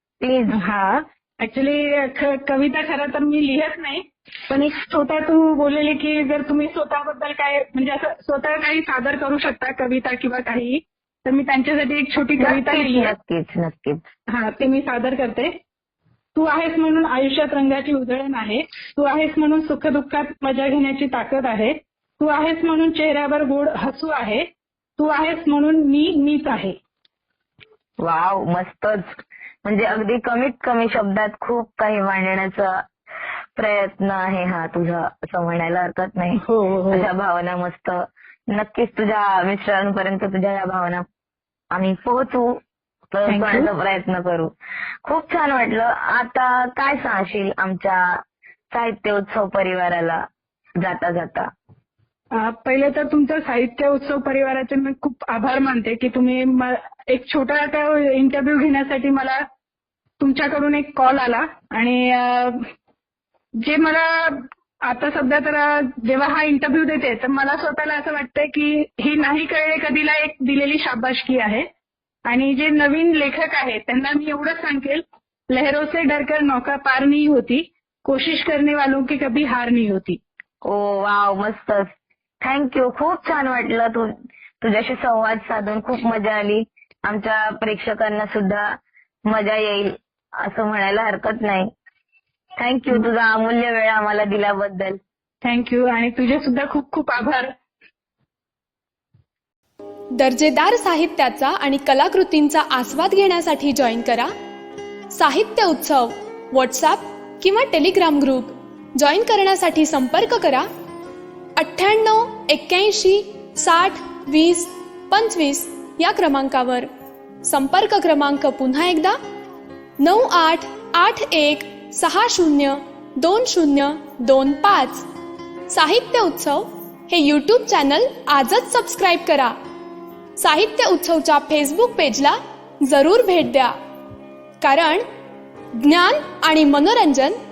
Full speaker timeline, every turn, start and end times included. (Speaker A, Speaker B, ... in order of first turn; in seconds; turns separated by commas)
Speaker A: 0.2-0.6, Speaker B: 0.5-13.1, Speaker A: 12.4-14.0, Speaker B: 14.3-15.5, Speaker B: 16.3-24.4, Speaker B: 25.0-26.7, Speaker A: 28.0-29.1, Speaker A: 29.6-32.8, Speaker A: 33.5-36.4, Speaker B: 36.4-37.0, Speaker A: 36.9-41.0, Speaker A: 41.7-42.6, Speaker A: 43.1-44.5, Speaker B: 43.3-43.7, Speaker A: 45.0-48.2, Speaker A: 48.7-50.2, Speaker A: 50.8-51.5, Speaker B: 52.3-59.4, Speaker B: 60.2-62.6, Speaker B: 63.6-71.7, Speaker B: 72.2-80.2, Speaker A: 80.6-91.7, Speaker A: 92.6-95.0, Speaker B: 95.4-97.5, Speaker C: 100.2-104.3, Speaker C: 105.2-110.6, Speaker C: 111.6-116.8, Speaker C: 117.4-119.1, Speaker C: 120.0-125.0, Speaker C: 125.7-129.5, Speaker C: 130.4-132.3, Speaker C: 132.9-133.7, Speaker C: 134.6-135.0, Speaker C: 135.9-137.3